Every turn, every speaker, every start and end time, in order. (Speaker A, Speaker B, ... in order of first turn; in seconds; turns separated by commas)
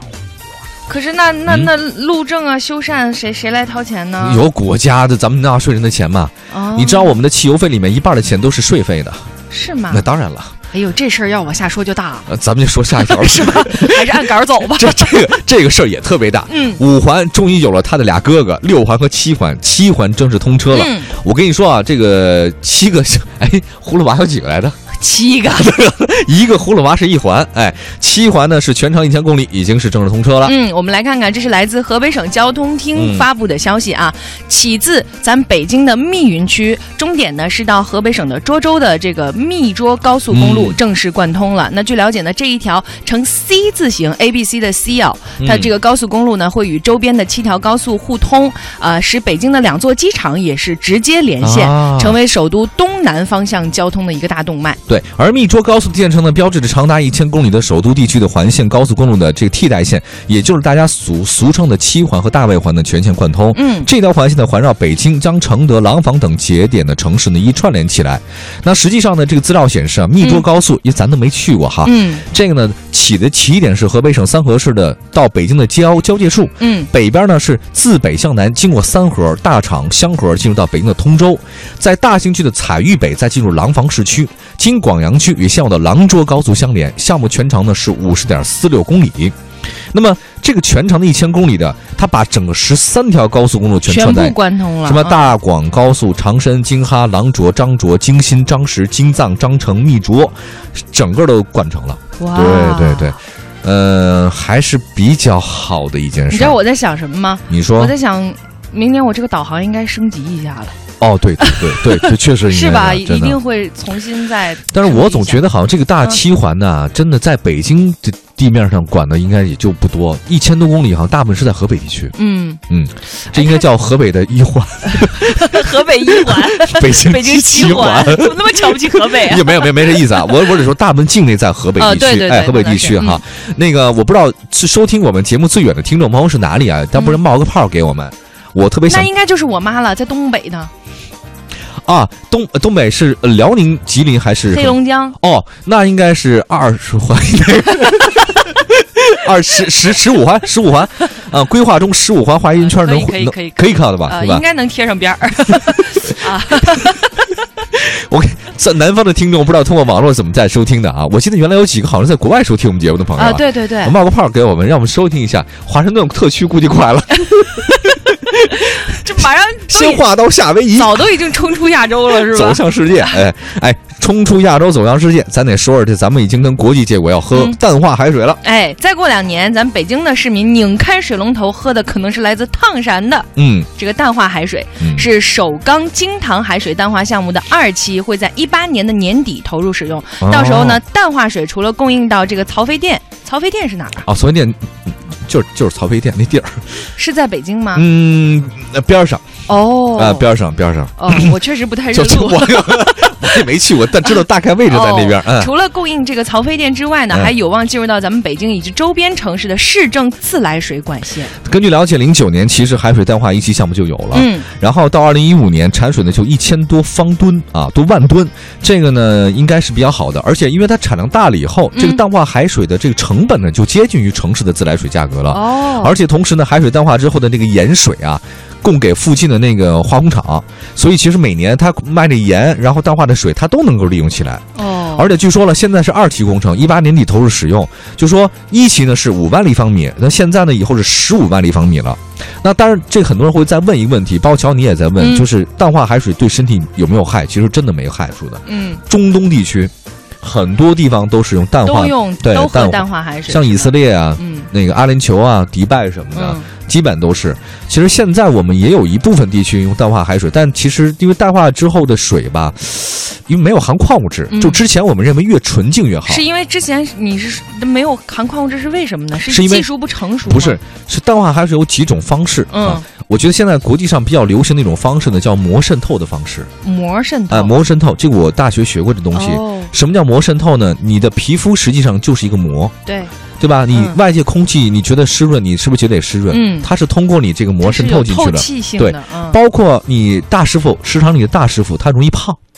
Speaker A: 0.9-4.4, Speaker B: 4.2-9.3, Speaker A: 6.5-7.2, Speaker A: 9.5-10.1, Speaker B: 9.9-10.5, Speaker A: 10.7-12.3, Speaker B: 12.3-24.8, Speaker A: 12.9-15.3, Speaker A: 16.5-16.8, Speaker A: 20.7-21.1, Speaker A: 24.9-25.7, Speaker B: 25.5-30.5, Speaker A: 30.4-54.8, Speaker B: 32.9-33.2, Speaker B: 40.3-40.8, Speaker B: 45.4-45.7, Speaker B: 51.4-52.2, Speaker B: 54.9-89.3, Speaker A: 63.5-63.9, Speaker A: 71.8-72.2, Speaker A: 76.6-76.9, Speaker B: 89.9-106.6, Speaker A: 93.8-95.3, Speaker A: 102.2-103.2, Speaker A: 106.3-110.8, Speaker B: 107.5-107.9, Speaker B: 111.0-113.4, Speaker A: 111.4-115.4, Speaker B: 114.7-122.1, Speaker A: 122.1-122.6, Speaker B: 122.7-139.1, Speaker A: 123.3-123.6, Speaker A: 124.8-130.5, Speaker A: 131.8-133.2, Speaker A: 138.9-140.7, Speaker B: 141.8-154.4, Speaker A: 144.5-145.2, Speaker A: 152.5-157.2, Speaker B: 155.9-156.2, Speaker B: 157.7-169.0, Speaker A: 163.2-163.9, Speaker A: 167.7-168.0, Speaker A: 168.5-170.0, Speaker B: 169.7-171.0, Speaker A: 170.7-173.2, Speaker B: 172.1-178.4, Speaker A: 177.3-177.6, Speaker A: 178.4-194.0, Speaker B: 183.3-183.7, Speaker B: 184.8-185.1, Speaker B: 190.2-190.8, Speaker B: 194.0-196.9, Speaker A: 196.9-197.8, Speaker B: 197.7-199.3, Speaker A: 199.5-200.3, Speaker B: 199.9-201.3, Speaker A: 201.0-203.5, Speaker B: 201.9-205.5, Speaker A: 204.0-211.3, Speaker B: 211.4-266.2, Speaker A: 214.1-214.5, Speaker A: 221.7-222.0, Speaker A: 225.3-226.0, Speaker A: 234.5-235.1, Speaker A: 245.0-245.3, Speaker A: 248.4-248.8, Speaker A: 251.6-254.5, Speaker A: 256.1-256.5, Speaker A: 264.3-264.6, Speaker A: 266.1-270.6, Speaker B: 269.3-269.7, Speaker B: 270.3-276.5, Speaker A: 272.5-272.8, Speaker A: 276.6-277.6, Speaker B: 277.3-282.7, Speaker A: 279.1-279.7, Speaker A: 282.9-283.1, Speaker B: 283.4-292.4, Speaker A: 283.7-284.0, Speaker A: 286.3-286.7, Speaker A: 287.6-289.4